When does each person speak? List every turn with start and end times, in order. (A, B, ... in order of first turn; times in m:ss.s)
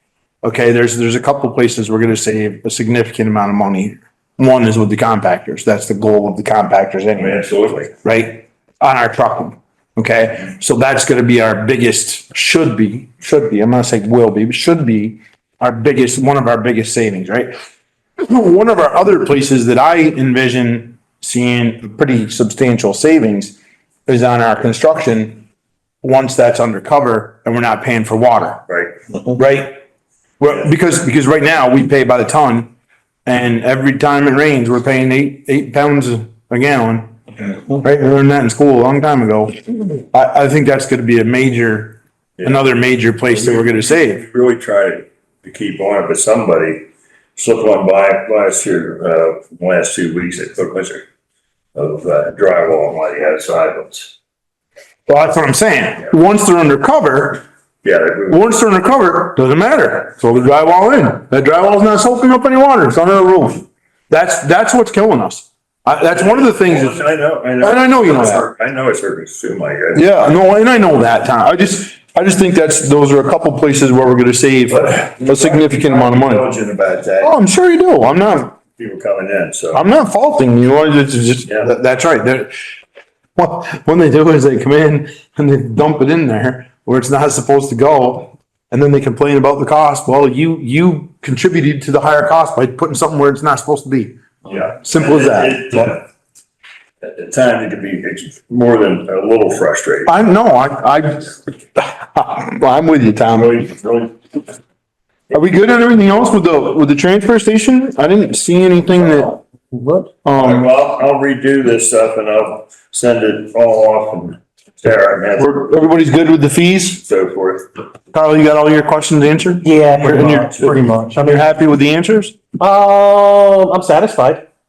0:00.4-0:07.4 A
0:07.2-0:07.9 B
0:08.0-0:17.5 A
0:18.2-0:23.5 A
0:24.1-0:25.4 A
0:26.0-0:28.6 A
0:28.7-0:28.9 B
0:29.3-0:29.8 A
0:30.4-0:32.7 A
0:33.2-0:44.2 A
0:42.4-0:42.7 B
0:43.2-0:51.0 B
0:51.7-0:54.1 B
0:55.1-0:57.4 A
0:57.8-0:58.4 B
0:58.3-1:07.0 A
1:06.1-1:10.1 B
1:07.6-1:08.5 A
1:09.9-1:16.4 A
1:14.7-1:17.3 B
1:17.2-1:18.6 A
1:18.8-1:19.8 B
1:19.7-1:22.5 A
1:23.4-1:34.2 A
1:34.4-1:36.0 B
1:34.8-1:35.9 A
1:37.0-1:40.1 B
1:40.0-1:43.6 A
1:43.3-1:44.2 B
1:45.3-1:49.4 A
1:49.7-1:50.1 C
1:50.2-1:50.7 A
1:50.3-1:55.7 B
1:55.4-1:57.0 A
1:57.0-1:57.7 B
1:58.1-2:02.4 A
1:59.6-2:01.4 C
2:02.6-2:04.4 C